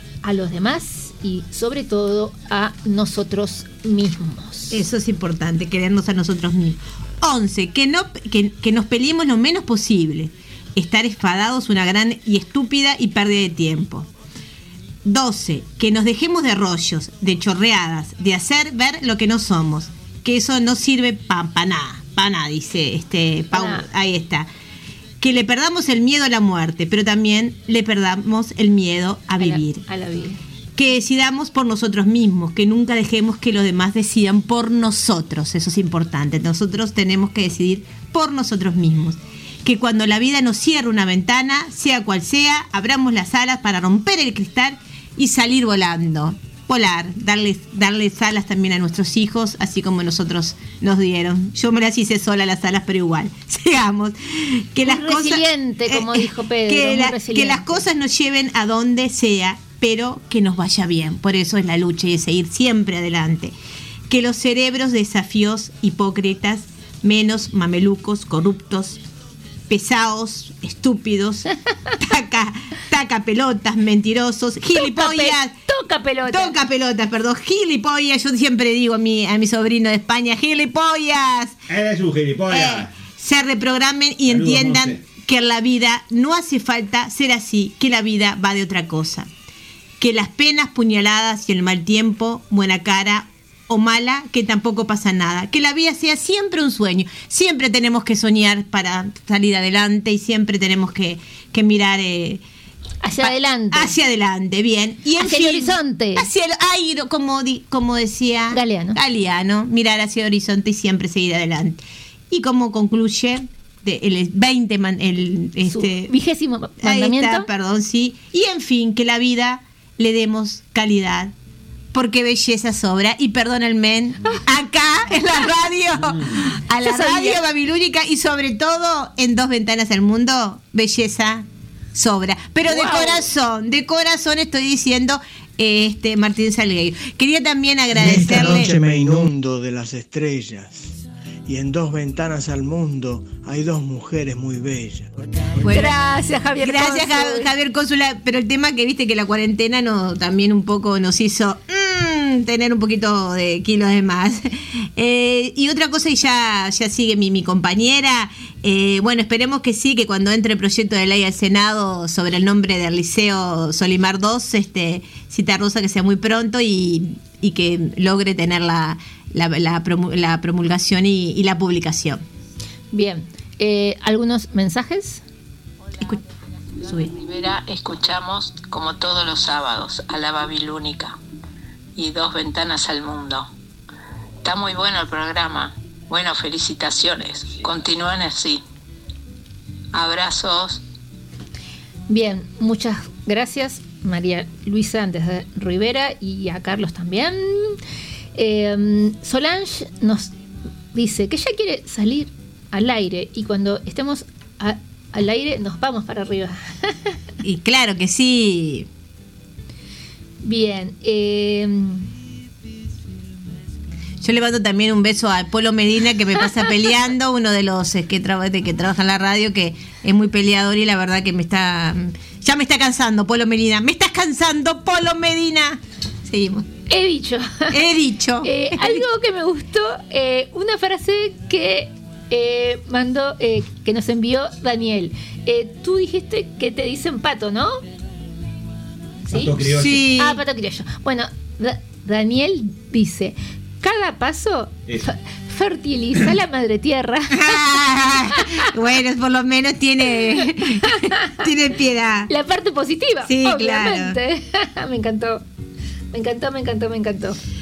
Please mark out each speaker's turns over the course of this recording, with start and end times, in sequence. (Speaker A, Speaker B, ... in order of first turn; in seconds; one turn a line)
Speaker A: 0.2-4.9
Speaker B: 4.7-14.1
Speaker B: 15.0-24.5
Speaker A: 23.5-23.9
Speaker B: 25.2-29.8
Speaker A: 29.4-30.4
Speaker B: 30.8-63.5
Speaker A: 54.8-57.8
Speaker B: 64.1-69.0
Speaker B: 69.7-75.5
Speaker A: 74.7-76.5
Speaker B: 76.3-81.6
Speaker C: 81.7-82.9
Speaker B: 82.5-89.3
Speaker C: 84.3-85.0
Speaker B: 90.0-102.4
Speaker A: 103.0-103.9
Speaker B: 103.2-116.1
Speaker A: 105.2-106.3
Speaker A: 108.5-109.0
Speaker A: 115.7-117.5
Speaker B: 116.8-121.3
Speaker B: 121.9-138.8
Speaker A: 126.8-127.4
Speaker A: 132.7-133.3
Speaker D: 137.9-145.2
Speaker B: 145.6-146.0
Speaker A: 145.7-147.5
Speaker B: 146.6-172.2
Speaker A: 172.9-175.2
Speaker B: 176.8-177.1
Speaker E: 177.1-181.2
Speaker E: 181.9-183.5
Speaker E: 184.4-188.6
Speaker E: 189.9-190.8
Speaker A: 192.1-197.8
Speaker A: 198.3-200.3
Speaker A: 200.9-207.1
Speaker B: 207.4-208.9
Speaker A: 210.4-212.1
Speaker B: 214.2-226.7
Speaker A: 226.9-227.8
Speaker B: 227.7-229.1
Speaker A: 228.4-237.8
Speaker A: 239.2-239.6
Speaker C: 239.3-240.1
Speaker B: 239.6-240.4
Speaker A: 240.1-247.8
Speaker B: 247.3-252.3
Speaker A: 250.9-251.4
Speaker A: 252.3-255.4
Speaker B: 253.2-254.2
Speaker A: 256.1-257.4